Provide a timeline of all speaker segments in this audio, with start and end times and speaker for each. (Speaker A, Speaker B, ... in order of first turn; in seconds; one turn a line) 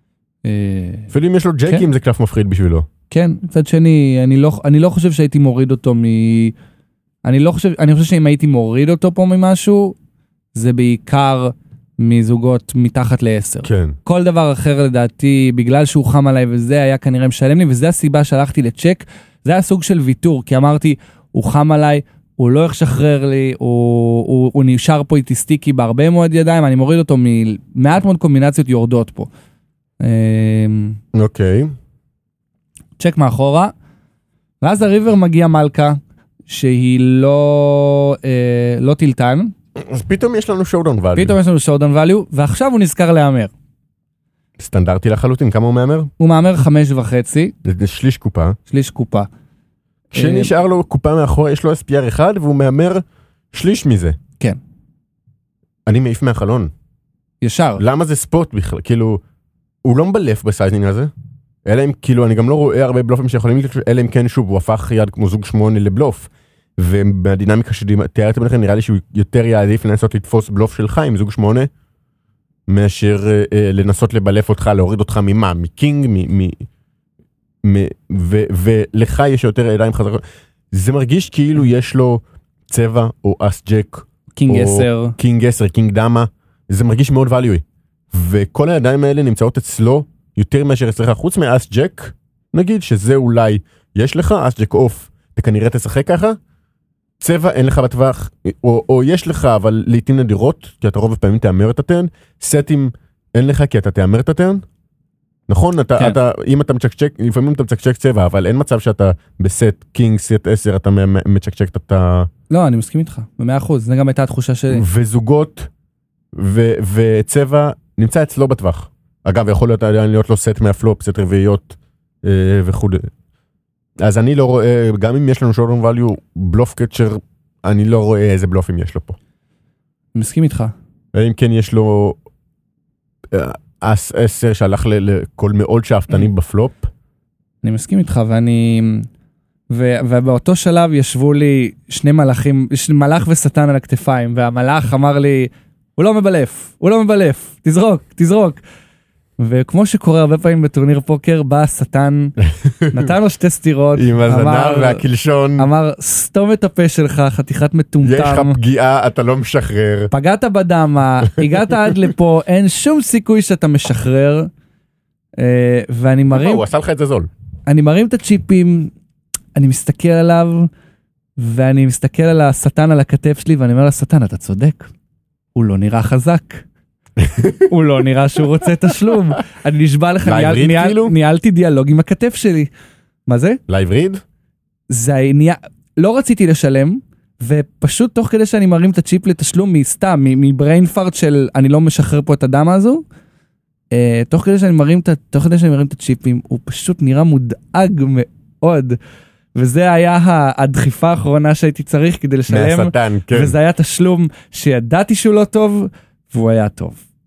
Speaker A: 0.4-1.1
Speaker B: 1.1-2.9
Speaker A: 3.1-6.5
Speaker A: 7.2-10.0
Speaker A: 10.5-29.3
Speaker B: 13.7-14.0
Speaker A: 30.0-31.0
Speaker B: 31.1-31.7
Speaker A: 33.0-33.7
Speaker A: 34.6-39.5
Speaker B: 39.8-41.4
Speaker A: 41.1-43.5
Speaker B: 44.6-46.1
Speaker A: 46.2-47.5
Speaker B: 47.6-48.6
Speaker A: 48.7-49.3
Speaker B: 50.1-54.2
Speaker A: 50.1-50.5
Speaker B: 55.9-56.7
Speaker A: 57.4-57.8
Speaker B: 57.8-59.2
Speaker B: 59.8-61.1
Speaker B: 61.6-71.7
Speaker B: 72.7-76.6
Speaker B: 77.6-80.2
Speaker B: 80.7-96.4
Speaker A: 84.4-85.2
Speaker B: 97.2-104.6
Speaker B: 105.5-112.3
Speaker A: 112.5-114.8
Speaker B: 114.7-115.7
Speaker B: 116.3-123.1
Speaker B: 124.0-129.2
Speaker A: 130.2-130.7
Speaker B: 131.1-132.2
Speaker B: 133.3-136.9
Speaker A: 137.6-139.1
Speaker A: 139.7-148.6
Speaker A: 149.4-152.3
Speaker B: 152.4-153.1
Speaker A: 152.9-155.0
Speaker B: 153.9-155.7
Speaker A: 155.6-158.6
Speaker B: 158.0-160.1
Speaker A: 160.1-164.5
Speaker A: 165.4-166.7
Speaker B: 166.3-167.3
Speaker A: 167.7-168.9
Speaker A: 169.6-170.7
Speaker A: 171.4-174.9
Speaker A: 175.6-176.7
Speaker B: 177.2-177.7
Speaker A: 177.7-182.7
Speaker B: 180.2-181.2
Speaker A: 183.3-183.6
Speaker B: 183.7-184.2
Speaker A: 184.9-193.0
Speaker A: 193.9-199.0
Speaker A: 199.6-207.0
Speaker B: 202.5-203.6